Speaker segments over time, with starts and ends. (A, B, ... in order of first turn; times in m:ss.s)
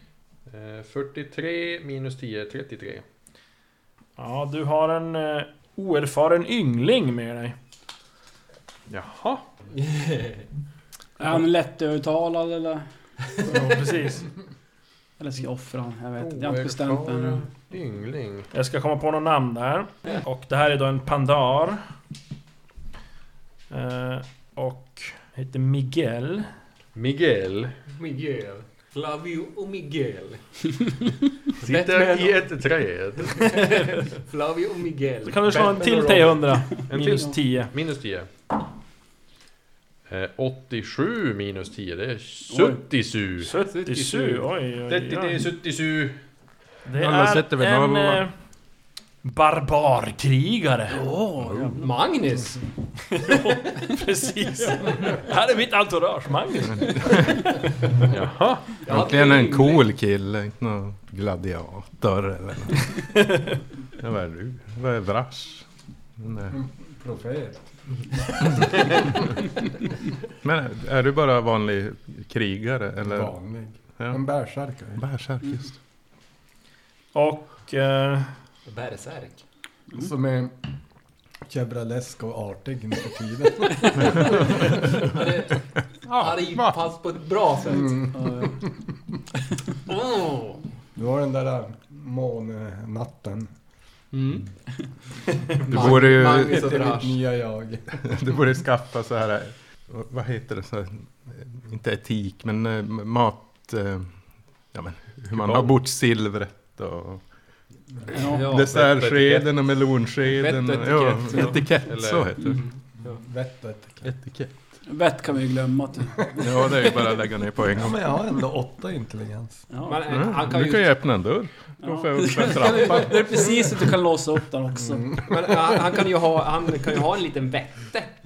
0:00.5-0:03.0 A
0:04.2-0:07.6 B
0:08.9-0:09.4 A
0:09.7-0:10.4 C
0:11.2-0:12.9 D
0:13.5-0:14.3 B
0:15.2-0:17.5 D
0:16.2-0:18.5 A
0:18.5-0:21.8 B
0:23.7-0:26.5 B
0:27.0-0:27.7 A
0:27.9-0:30.9 C
0:31.6-0:32.4 C
0:31.6-0:33.8 A
0:33.3-0:36.2 C
0:33.5-0:34.0 B
0:35.3-0:37.7 B
0:36.9-0:38.3 A
0:40.1-0:43.5 A
0:42.5-0:42.8 D
0:43.4-0:45.4 B
0:43.7-0:44.5 C
0:44.9-0:46.2 A
0:46.9-0:48.3 B
0:47.0-0:48.3 E
0:49.2-0:51.0 B
0:51.0-0:51.6 D
0:51.7-0:52.6 C
0:53.1-0:57.6 B
0:58.0-0:58.8 A
0:58.8-0:59.8 C
0:58.8-1:03.3 E
1:03.1-1:03.6 B
1:04.0-1:05.7 E
1:06.2-1:06.5 E
1:06.5-1:07.6 F
1:08.4-1:08.9 F
1:10.4-1:13.3 E
1:13.0-1:15.0 F
1:14.0-1:14.2 E
1:15.0-1:15.8 E
1:17.1-1:18.3 B
1:18.7-1:19.4 C
1:19.9-1:20.6 F
1:21.4-1:24.8 F
1:25.1-1:28.0 C
1:27.8-1:28.6 D
1:28.0-1:28.5 F
1:29.9-1:30.6 C
1:31.0-1:33.5 F
1:34.1-1:34.4 C
1:35.5-1:37.1 C
1:35.7-1:38.2 F
1:35.7-1:36.8 E
1:38.0-1:47.2 E
1:45.3-1:45.8 A
1:48.1-1:48.6 D
1:48.2-1:48.8 C
1:48.4-1:52.6 E
1:48.7-1:49.6 A
1:50.3-1:51.7 C
1:51.3-1:52.3 A
1:52.4-1:53.2 C
1:53.0-1:54.1 F
1:54.0-1:54.5 E
1:54.8-1:56.7 D
1:56.4-1:58.0 E
1:57.7-1:59.6 F
1:59.7-2:00.0 D
1:59.9-2:00.9 C
2:00.0-2:03.9 E
2:01.8-2:05.1 D
2:04.8-2:05.8 F
2:05.3-2:08.1 C